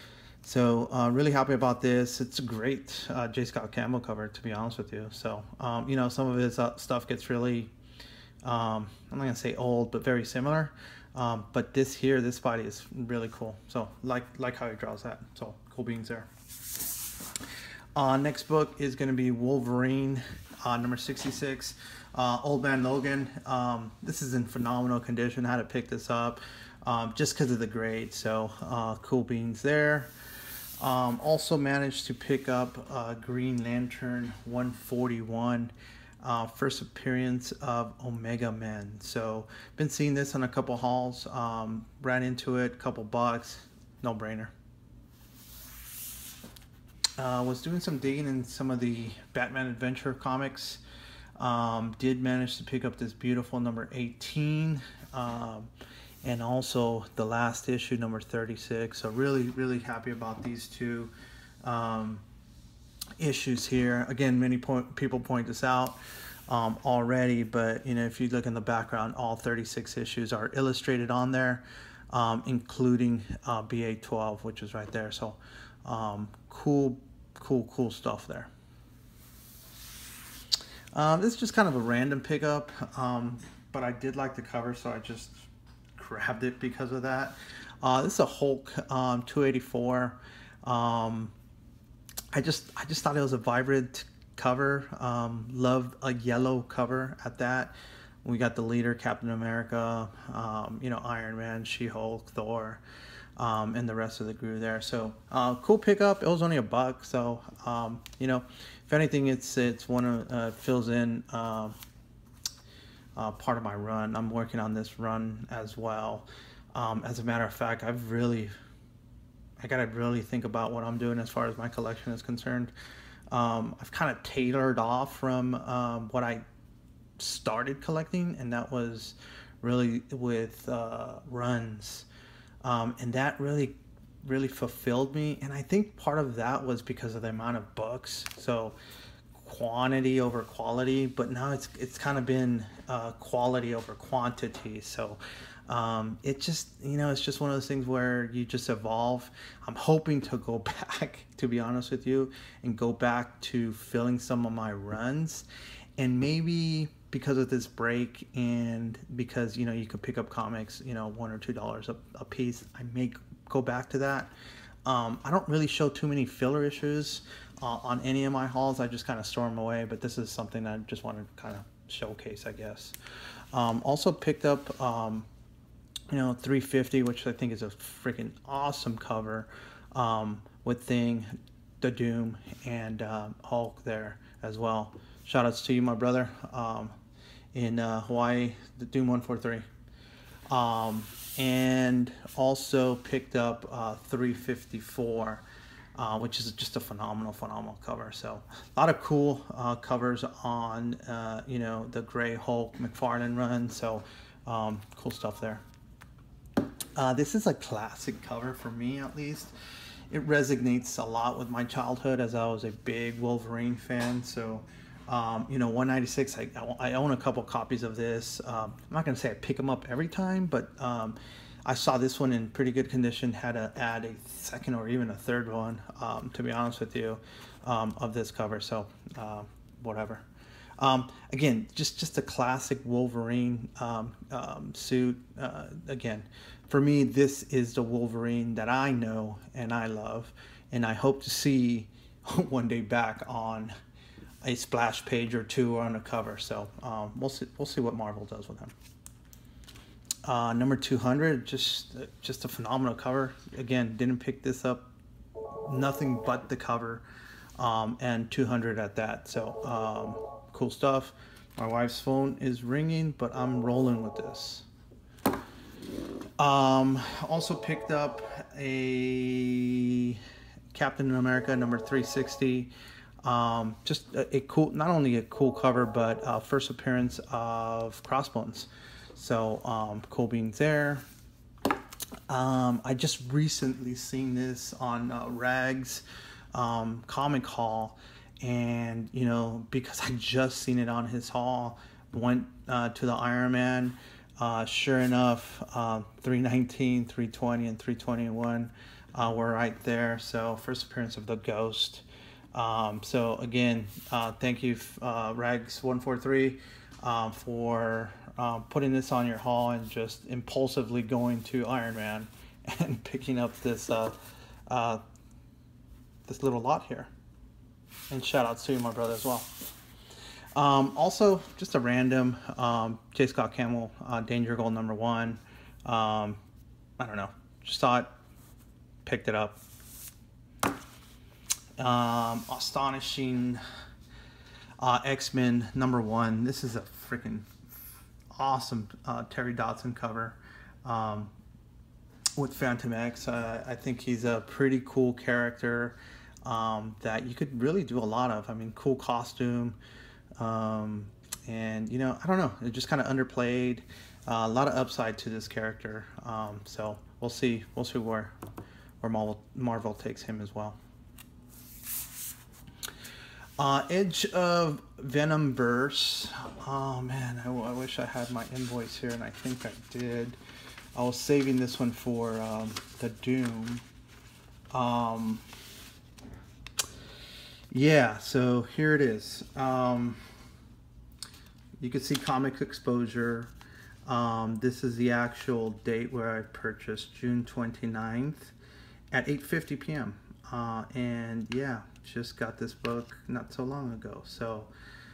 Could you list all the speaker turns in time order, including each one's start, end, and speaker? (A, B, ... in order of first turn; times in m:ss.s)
0:00.4-0:07.7 A
0:08.4-0:16.3 A
0:17.9-0:30.1 A
0:30.8-0:44.5 A
0:47.2-0:50.8 A
0:51.4-0:55.7 A
0:56.2-1:02.2 A
1:03.2-1:18.5 A
1:20.9-1:25.4 A
1:26.0-1:31.3 A
1:32.3-1:42.8 A
1:43.4-1:51.8 A
1:53.2-1:58.5 A
1:59.6-2:02.7 A
2:03.3-2:06.4 A
2:07.2-2:12.1 A
2:12.6-2:18.8 A
2:19.3-2:35.4 A
2:36.0-2:44.3 A
2:44.8-2:53.0 A
2:53.5-2:55.3 A
2:56.1-3:01.3 A
3:01.8-3:06.9 A
3:07.5-3:09.6 A
3:10.5-3:15.4 A
3:16.0-3:25.6 A
3:27.0-3:29.5 A
3:30.1-3:50.2 A
3:50.8-4:03.7 A
4:04.4-4:08.7 A
4:10.2-4:14.8 A
4:15.6-4:17.0 A
4:17.6-4:24.6 A
4:26.4-4:30.2 A
4:30.7-4:32.7 A
4:33.2-4:41.0 A
4:42.3-5:14.2 A
5:14.7-5:15.0 A
5:16.3-5:17.1 A
5:18.1-5:19.5 A
5:20.5-5:26.4 A
5:27.0-5:28.1 A
5:29.0-5:29.6 A
5:31.8-5:33.6 A
5:34.8-5:37.7 A
5:38.3-5:41.3 A
5:42.4-5:49.8 A
5:50.4-5:58.3 A
5:59.0-6:00.8 A
6:03.6-6:10.4 A
6:10.9-6:13.8 A
6:14.7-6:15.4 A
6:17.7-6:20.2 A
6:21.8-6:23.5 A
6:24.0-6:28.5 A
6:29.1-6:34.7 A